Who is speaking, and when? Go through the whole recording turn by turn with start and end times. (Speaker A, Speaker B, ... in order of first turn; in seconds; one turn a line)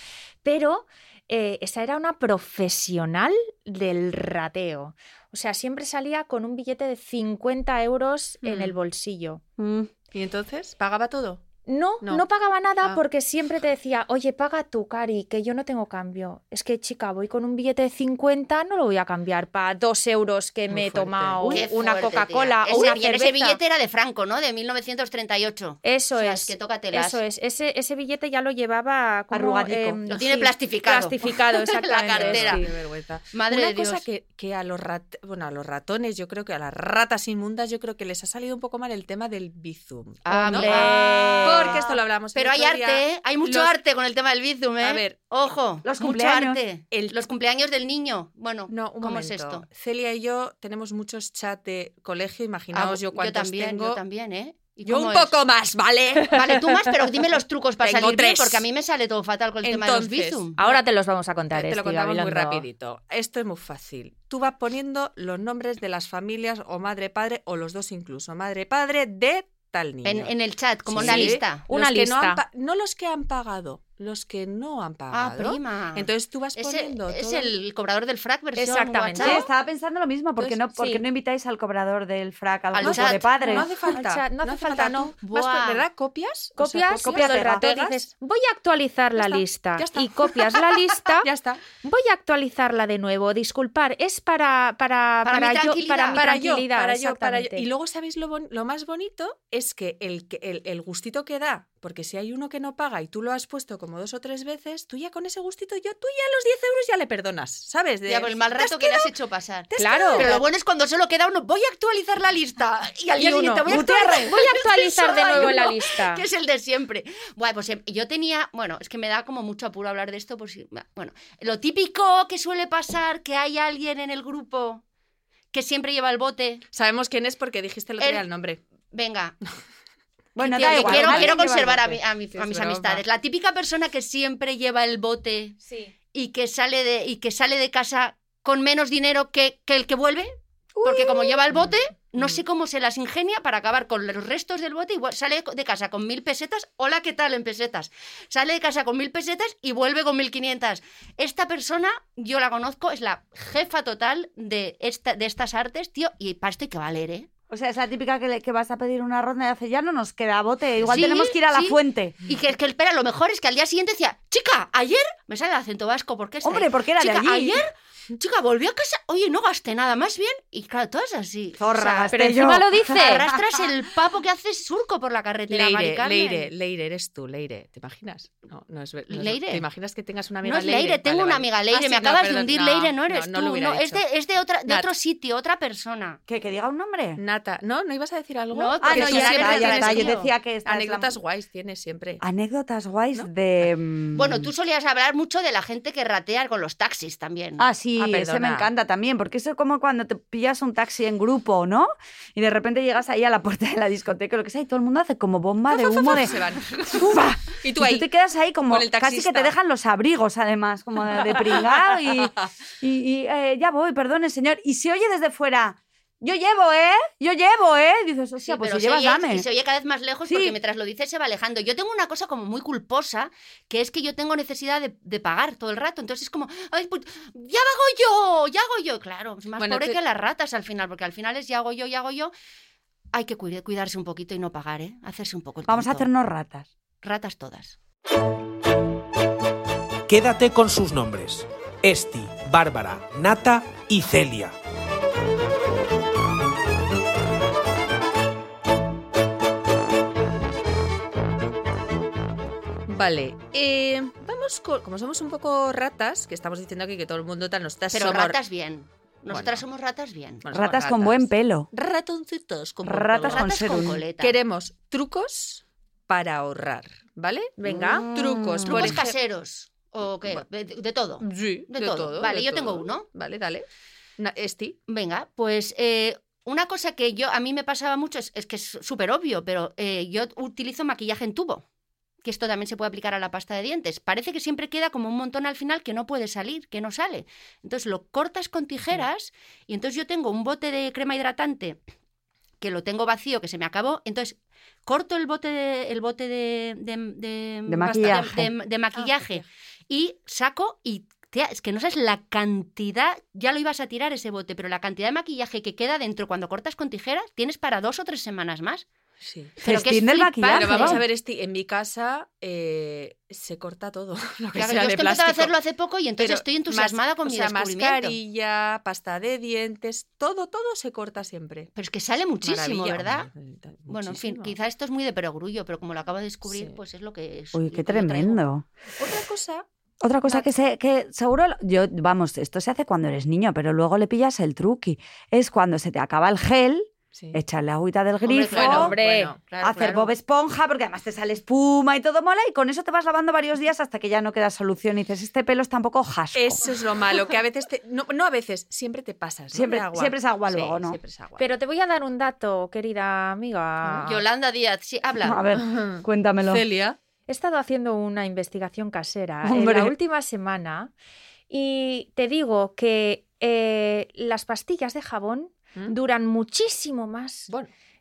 Speaker A: 0.4-9.4
Speaker B: 8.4-8.8
Speaker C: 9.6-9.9
Speaker B: 10.1-11.4
Speaker A: 11.7-23.6
Speaker B: 20.7-21.5
Speaker D: 21.4-27.2
Speaker A: 25.8-32.6
Speaker C: 29.3-30.0
Speaker D: 30.1-32.6
Speaker B: 32.1-43.7
Speaker D: 33.3-34.0
Speaker D: 40.2-41.8
Speaker A: 40.3-41.4
Speaker C: 40.6-42.0
Speaker D: 42.3-49.6
Speaker B: 44.8-45.1
Speaker C: 45.8-46.6
Speaker B: 46.9-47.2
Speaker B: 48.7-54.0
Speaker D: 52.7-55.3
Speaker B: 54.8-56.6
Speaker D: 56.3-60.6
Speaker B: 57.8-58.6
Speaker B: 59.6-60.5
Speaker A: 60.6-62.6
Speaker B: 61.5-70.3
Speaker D: 70.0-71.6
Speaker B: 70.8-77.5
Speaker A: 71.0-72.4
Speaker D: 75.1-79.4
Speaker A: 78.5-79.4
Speaker C: 79.2-83.7
Speaker B: 80.4-80.6
Speaker A: 80.7-81.0
Speaker D: 82.7-83.3
Speaker B: 82.8-88.0
Speaker A: 83.5-85.1
Speaker D: 85.2-85.8
Speaker A: 86.6-91.3
Speaker C: 87.0-87.6
Speaker B: 89.2-91.6
Speaker A: 91.8-97.7
Speaker D: 95.2-96.2
Speaker B: 96.1-109.1
Speaker D: 108.1-124.8
Speaker B: 109.7-110.5
Speaker A: 109.8-110.3
Speaker B: 113.2-113.8
Speaker A: 113.3-116.2
Speaker C: 113.7-114.3
Speaker D: 125.5-126.6
Speaker B: 126.7-128.6
Speaker D: 128.0-128.2
Speaker D: 128.9-129.4
Speaker C: 130.3-132.0
Speaker D: 130.4-135.6
Speaker B: 130.5-131.4
Speaker B: 132.3-133.0
Speaker A: 135.6-135.9
Speaker D: 136.1-140.3
Speaker C: 140.7-141.4
Speaker D: 140.8-157.3
Speaker B: 141.5-142.3
Speaker C: 157.5-162.2
Speaker D: 160.9-172.1
Speaker C: 166.4-167.7
Speaker C: 171.6-173.6
Speaker A: 172.1-173.2
Speaker D: 172.9-176.5
Speaker B: 175.5-184.0
Speaker D: 179.1-179.6
Speaker D: 180.4-186.2
Speaker C: 186.3-187.2
Speaker B: 187.2-192.2
Speaker D: 188.5-190.3
Speaker C: 188.8-191.2
Speaker C: 192.2-194.5
Speaker D: 194.1-197.7
Speaker C: 197.6-219.4
Speaker B: 198.0-198.7
Speaker B: 205.7-208.1
Speaker B: 208.7-209.5
Speaker B: 211.2-212.4
Speaker D: 218.4-232.3
Speaker C: 220.2-220.6
Speaker B: 229.6-230.0
Speaker D: 233.1-236.1
Speaker C: 235.7-236.7
Speaker D: 237.0-237.8
Speaker E: 240.1-244.5
Speaker B: 252.9-258.4
Speaker D: 257.9-260.4
Speaker B: 259.3-259.6
Speaker B: 260.4-261.3
Speaker C: 260.5-261.7
Speaker D: 261.8-262.2
Speaker B: 261.8-269.1
Speaker D: 262.8-264.4
Speaker C: 262.8-264.0
Speaker A: 267.6-268.1
Speaker C: 267.9-269.0
Speaker D: 268.6-273.1
Speaker B: 271.2-273.6
Speaker B: 274.2-274.8
Speaker D: 274.9-281.6
Speaker D: 282.2-291.8
Speaker D: 292.6-308.8
Speaker C: 297.7-298.5
Speaker B: 297.9-298.3
Speaker B: 298.9-299.4
Speaker B: 309.2-309.5
Speaker D: 309.6-311.0
Speaker C: 309.6-311.0
Speaker B: 310.4-315.6
Speaker D: 314.5-318.2
Speaker B: 316.2-321.7
Speaker D: 321.8-323.3
Speaker B: 322.4-324.6
Speaker D: 323.9-328.4
Speaker B: 326.5-326.8
Speaker C: 327.5-328.6
Speaker B: 329.0-329.6
Speaker C: 330.0-338.9
Speaker B: 337.1-337.4
Speaker D: 338.2-340.1
Speaker B: 338.5-339.4
Speaker A: 338.7-339.3
Speaker C: 339.6-346.7
Speaker B: 346.3-351.4
Speaker C: 349.5-351.0
Speaker A: 351.4-354.2
Speaker D: 353.9-355.4
Speaker C: 355.2-356.6
Speaker B: 355.6-357.0
Speaker A: 357.3-360.9
Speaker C: 359.4-359.9
Speaker A: 361.5-367.5